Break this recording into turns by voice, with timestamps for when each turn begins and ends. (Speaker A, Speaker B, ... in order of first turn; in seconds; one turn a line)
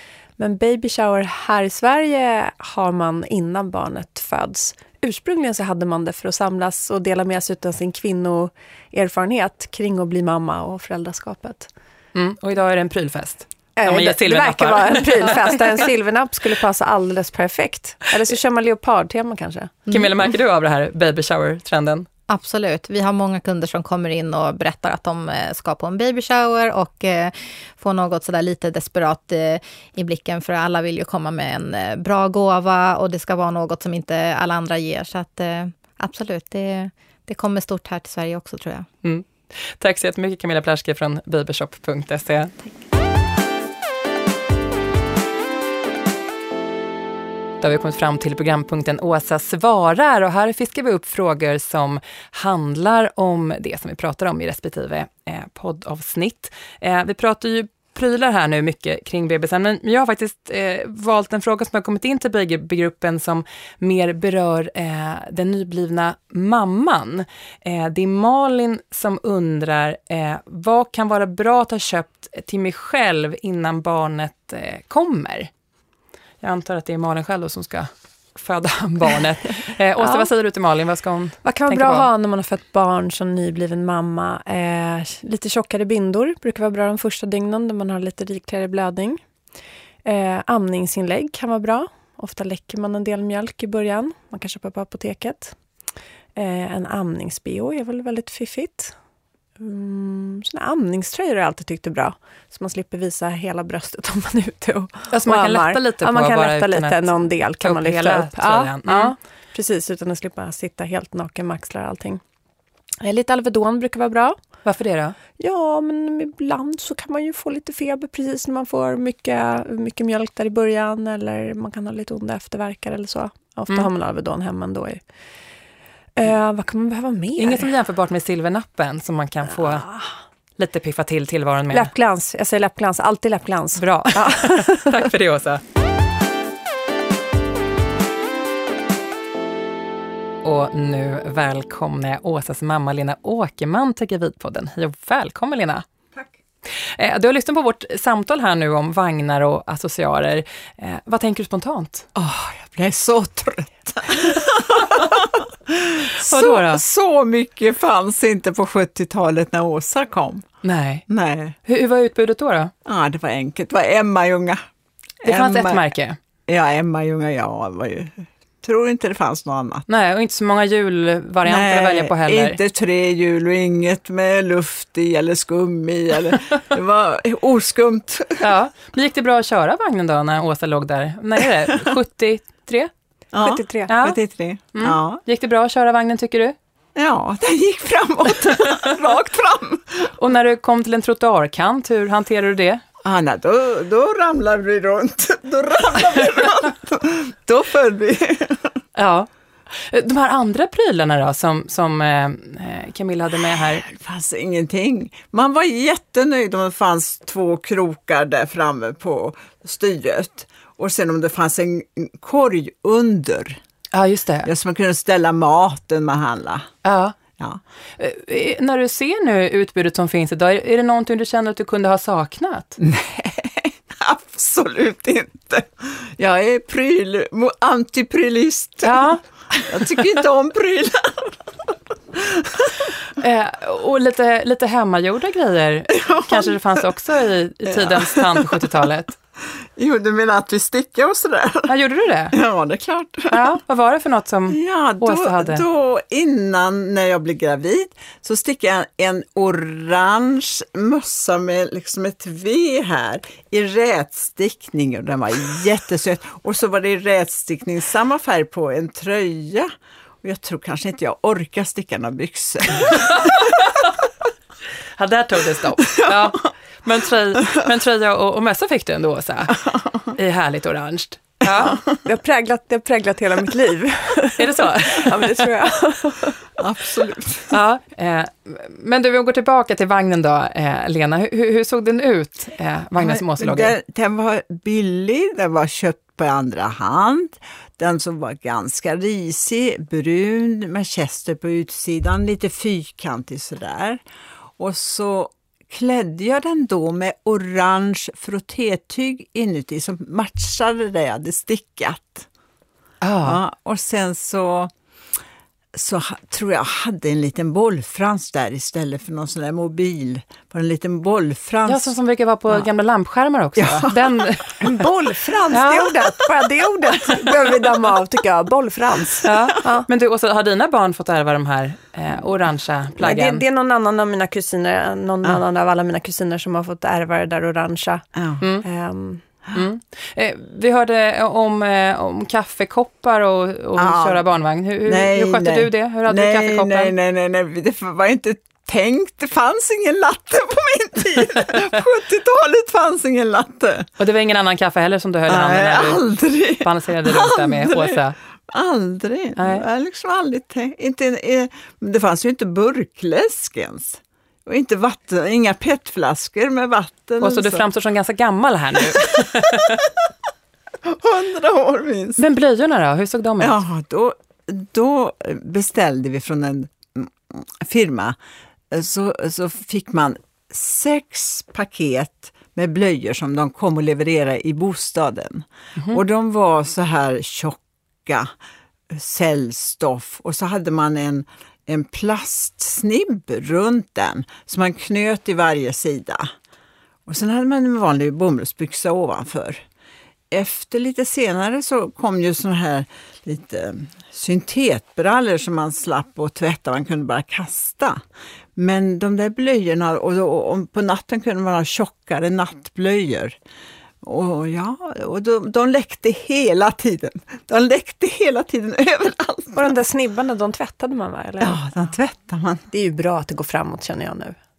Speaker A: 0.4-11.7
Speaker B: 12.2-15.6
Speaker A: 13.8-19.8
Speaker C: 19.9-20.1
Speaker B: 19.9-22.1
Speaker C: 22.3-38.9
Speaker B: 39.0-42.5
Speaker B: 47.6-75.5
Speaker B: 76.4-82.1
Speaker A: 80.0-80.3
Speaker A: 81.4-89.2
Speaker A: 90.0-95.6
Speaker A: 96.3-99.0
Speaker A: 99.6-112.2
Speaker B: 105.1-109.2
Speaker A: 113.0-114.4
Speaker B: 114.7-115.2
Speaker A: 115.4-125.0
Speaker A: 126.2-127.7
Speaker B: 127.4-129.9
Speaker A: 129.5-130.2
Speaker B: 130.6-131.9
Speaker A: 131.7-135.1
Speaker B: 133.8-135.6
Speaker B: 140.4-145.8
Speaker B: 146.8-152.1
Speaker D: 152.2-160.5
Speaker B: 156.2-156.8
Speaker B: 160.6-161.1
Speaker D: 161.1-161.6
Speaker B: 161.7-162.7
Speaker D: 162.9-164.6
Speaker B: 165.2-166.2
Speaker D: 165.2-165.8
Speaker D: 166.5-169.9
Speaker B: 169.9-172.6
Speaker D: 171.4-178.5
Speaker B: 178.4-182.9
Speaker D: 183.3-185.2
Speaker A: 183.4-183.9
Speaker B: 183.9-184.2
Speaker B: 184.7-186.6
Speaker D: 187.0-190.1
Speaker B: 190.1-192.8
Speaker D: 193.0-198.8
Speaker B: 198.9-203.8
Speaker D: 203.4-213.6
Speaker B: 213.9-214.5
Speaker D: 214.4-216.7
Speaker B: 216.8-217.2
Speaker B: 218.0-222.8
Speaker D: 222.8-232.9
Speaker B: 228.8-230.2
Speaker B: 233.2-239.2
Speaker D: 236.0-236.8
Speaker D: 237.7-238.7
Speaker D: 239.8-241.7
Speaker B: 241.7-242.4
Speaker D: 242.3-243.5
Speaker B: 243.3-245.6
Speaker D: 244.5-259.7
Speaker D: 260.2-263.7
Speaker B: 262.9-263.7
Speaker B: 265.0-271.8
Speaker D: 266.0-266.3
Speaker D: 271.5-271.9
Speaker A: 272.0-276.4
Speaker B: 274.4-275.5
Speaker D: 276.6-277.5
Speaker B: 277.5-283.7
Speaker D: 283.0-294.0
Speaker D: 294.6-302.3
Speaker B: 303.0-303.4
Speaker D: 303.2-304.7
Speaker D: 305.8-311.9
Speaker B: 311.7-314.8
Speaker D: 313.6-313.9
Speaker A: 314.6-319.9
Speaker B: 315.5-315.9
Speaker B: 319.2-323.4
Speaker A: 323.0-328.1
Speaker D: 328.2-328.4
Speaker A: 328.6-329.2
Speaker B: 329.5-336.9
Speaker D: 333.8-334.2
Speaker D: 334.9-343.9
Speaker B: 344.0-348.2
Speaker D: 345.3-357.6
Speaker B: 349.4-349.6
Speaker B: 357.2-359.8
Speaker D: 358.9-359.9
Speaker D: 360.8-362.2
Speaker B: 362.2-363.6
Speaker D: 363.4-368.2
Speaker D: 368.7-378.3
Speaker D: 378.9-386.3
Speaker D: 387.1-389.6
Speaker D: 390.3-398.0
Speaker D: 398.6-403.4
Speaker D: 404.0-409.7
Speaker A: 409.5-411.6
Speaker D: 411.4-412.6
Speaker A: 412.7-414.4